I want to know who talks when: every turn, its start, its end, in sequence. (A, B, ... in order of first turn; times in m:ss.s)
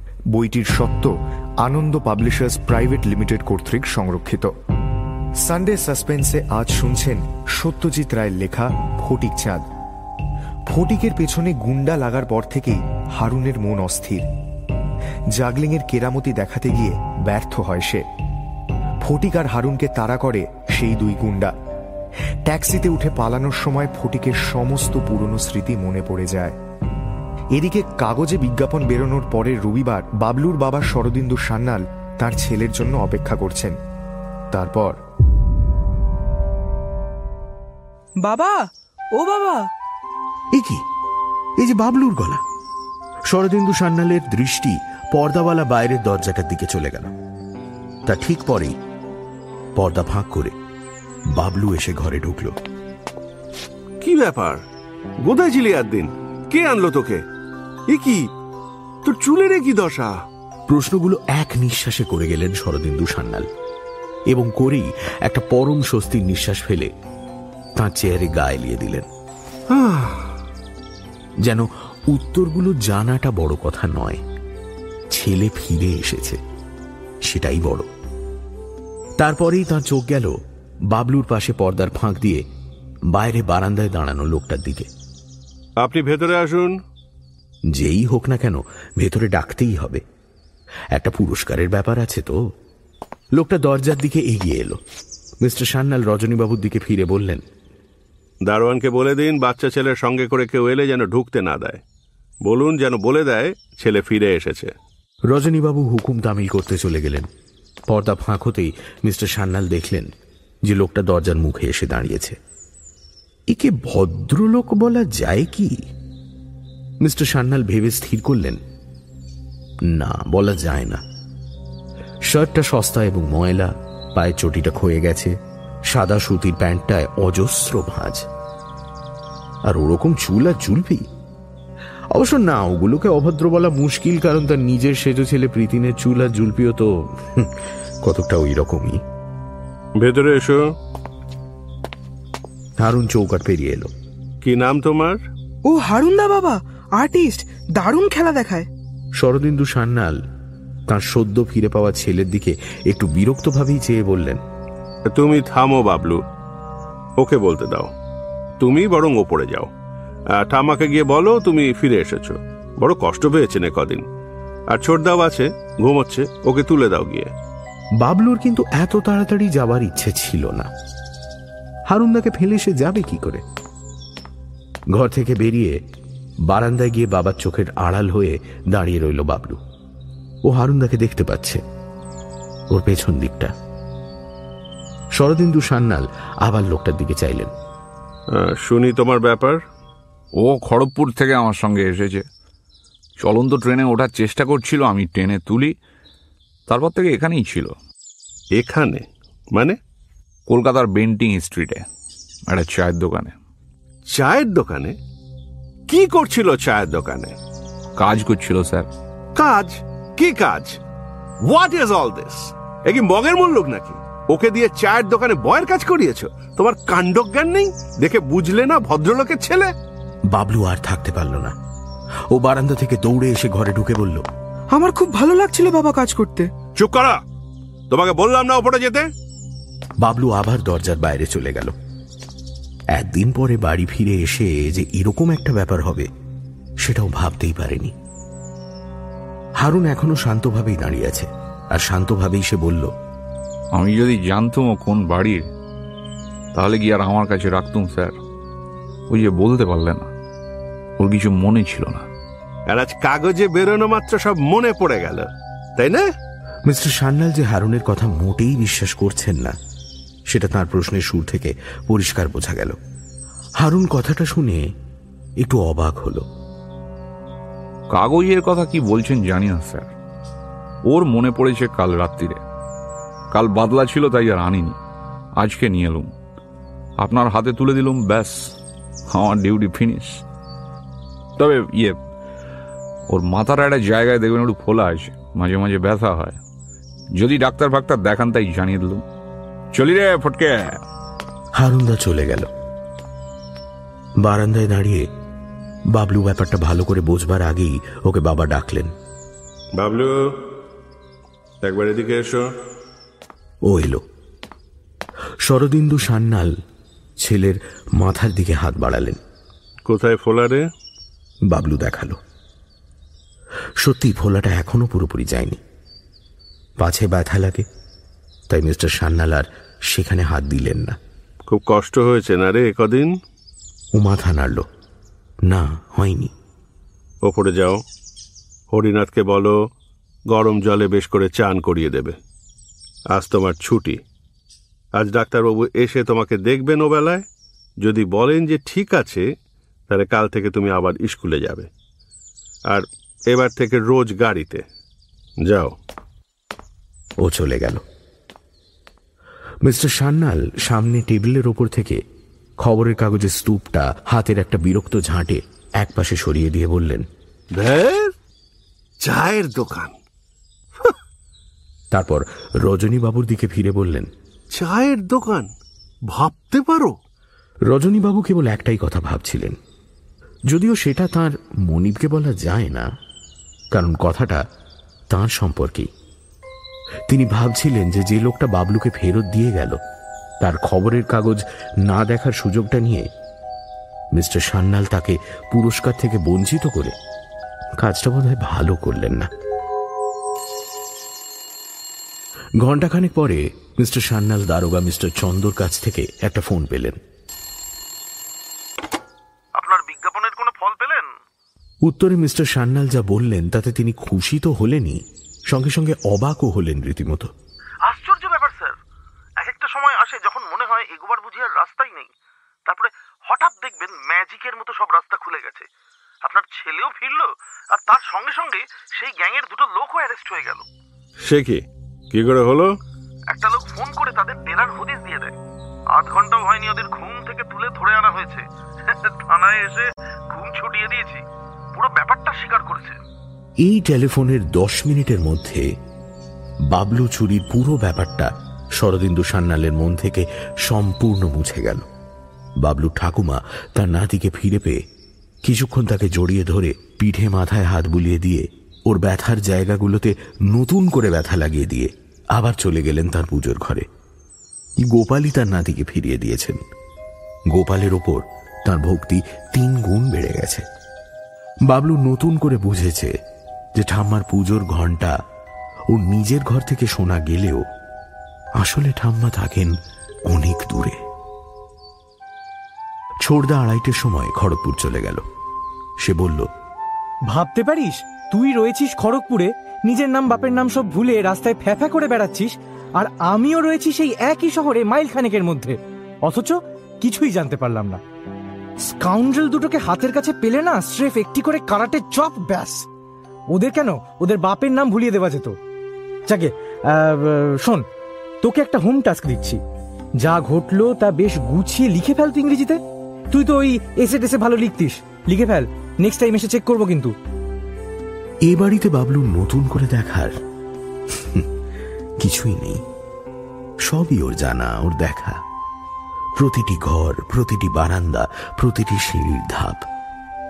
0:00.3-0:04.5 A
0:05.4-0:09.6 A
0:10.7-0:14.2 A
0:15.3-0:18.0 A
0:19.0-0:21.5 A
0:22.4-0:26.6 A
0:27.5-0:33.8 A
0:34.5-0:35.0 A
0:38.2-0:39.7 B
0:40.5-0:40.8 C
0:41.6-0:42.4 C
0:43.3-0:47.1 C
0:48.0-0:48.8 C
0:49.8-0:50.5 C
0:51.3-0:52.6 C
0:54.0-0:54.6 D
0:55.2-0:57.2 D
0:57.9-0:58.2 D
0:59.0-1:00.2 D
1:00.7-1:03.5 C
1:04.3-1:06.9 C
1:07.8-1:09.1 C
1:09.7-1:10.3 D
1:11.4-1:14.2 C
1:15.1-1:16.4 C
1:17.2-1:17.9 C
1:19.2-1:20.3 C
1:20.9-1:22.4 C
1:23.1-1:24.9 C
1:25.8-1:26.8 D
1:27.7-1:30.0 C
1:30.9-1:32.4 C
1:33.4-1:34.8 C
1:35.4-1:37.4 C
1:38.4-1:41.8 D
1:42.4-1:44.7 D
1:45.3-1:47.3 C
1:47.9-1:50.1 C
1:50.6-1:52.4 C
1:53.5-1:55.8 C
1:57.0-1:58.6 C
1:59.9-2:01.0 C
2:02.3-2:05.3 C
2:05.9-2:08.2 C
2:09.7-2:11.0 C
2:12.1-2:19.0 C
2:20.0-2:20.7 D
2:22.8-2:23.9 C
2:24.4-2:25.2 D
2:25.6-2:28.7 B
2:29.2-2:30.2 C
2:30.9-2:34.4 C
2:35.1-2:36.2 D
2:37.2-2:37.9 D
2:38.6-2:39.7 D
2:40.3-2:44.0 D
2:44.7-2:47.3 D
2:48.0-2:50.7 C
2:51.9-2:53.4 C
2:54.9-2:55.8 C
2:56.4-2:59.6 C
3:00.5-3:01.6 C
3:02.7-3:03.5 C
3:05.2-3:07.5 C
3:08.3-3:09.6 D
3:10.4-3:12.2 E
3:13.2-3:15.7 E
3:16.7-3:17.7 E
3:18.6-3:19.8 D
3:20.5-3:21.8 E
3:22.5-3:23.3 E
3:24.1-3:25.0 D
3:25.9-3:27.3 D
3:28.0-3:28.9 E
3:29.4-3:30.8 D
3:31.4-3:39.7 D
3:40.3-3:41.6 C
3:42.3-3:44.3 C
3:44.7-3:46.5 B
3:46.8-3:47.2 D
3:47.9-3:49.1 D
3:50.0-3:51.7 C
3:52.9-3:56.1 C
3:56.8-3:58.0 C
3:59.6-4:02.9 C
4:03.7-4:05.5 E
4:06.6-4:08.2 E
4:09.1-4:10.1 E
4:11.0-4:12.1 E
4:12.7-4:16.0 D
4:16.7-4:19.6 C
4:20.3-4:22.8 C
4:23.6-4:24.6 C
4:25.4-4:26.2 C
4:27.9-4:29.9 E
4:30.9-4:32.4 E
4:33.3-4:34.8 E
4:35.4-4:36.1 E
4:37.0-4:38.5 E
4:39.1-4:40.2 E
4:41.4-4:42.0 E
4:43.1-4:46.4 E
4:47.2-4:49.0 E
4:49.7-4:50.8 E
4:51.6-4:52.5 C
4:54.2-4:55.1 C
4:55.9-4:58.9 C
4:59.8-5:00.4 D
5:01.6-5:02.5 D
5:03.6-5:04.0 C
5:05.4-5:06.5 C
5:07.2-5:09.2 C
5:09.9-5:10.6 D
5:11.5-5:12.2 C
5:13.8-5:15.6 C
5:16.8-5:17.6 C
5:18.5-5:21.0 C
5:21.5-5:23.1 D
5:23.9-5:24.7 C
5:25.4-5:26.3 C
5:27.2-5:27.8 D
5:28.7-5:29.6 D
5:30.3-5:32.2 D
5:33.1-5:34.0 D
5:35.0-5:37.2 D
5:37.8-5:39.3 D
5:39.9-5:41.7 D
5:42.7-5:44.6 D
5:45.4-5:45.8 D
5:47.2-5:47.8 C
5:49.6-5:52.0 C
5:52.6-5:57.1 C
5:57.6-5:58.1 D
5:59.0-6:00.0 D
6:01.9-6:04.1 C
6:04.5-6:05.5 D
6:06.1-6:07.0 D
6:07.7-6:09.6 C
6:10.5-6:12.9 C
6:13.7-6:14.4 C
6:15.1-6:15.9 C
6:17.1-6:19.8 C
6:20.4-6:23.1 C
6:24.2-6:26.9 C
6:27.8-6:29.3 C
6:32.6-6:37.0 C
6:39.6-6:41.1 F
6:41.8-6:47.3 C
6:47.8-6:48.8 F
6:49.4-6:52.1 F
6:52.7-6:55.7 F
6:56.2-7:00.6 F
7:01.2-7:02.7 D
7:03.3-7:05.3 F
7:05.9-7:11.2 F
7:11.7-7:13.0 F
7:13.6-7:15.6 C
7:16.7-7:21.8 C
7:22.6-7:24.8 C
7:25.4-7:33.9 C
7:34.8-7:36.6 C
7:37.5-7:40.6 C
7:41.7-7:43.1 C
7:43.8-7:45.2 C
7:45.9-7:47.6 C
7:48.6-7:49.8 C
7:50.3-7:51.0 C
7:53.2-7:55.2 C
7:56.0-7:56.5 C
7:57.3-8:08.0 G
8:08.9-8:12.8 G
8:13.5-8:15.6 G
8:16.3-8:17.8 G
8:18.4-8:19.6 G
8:20.2-8:22.8 G
8:23.3-8:27.1 G
8:28.5-8:30.3 C
8:31.1-8:31.5 C
8:32.2-8:32.8 C
8:33.8-8:35.4 C
8:36.4-8:39.8 C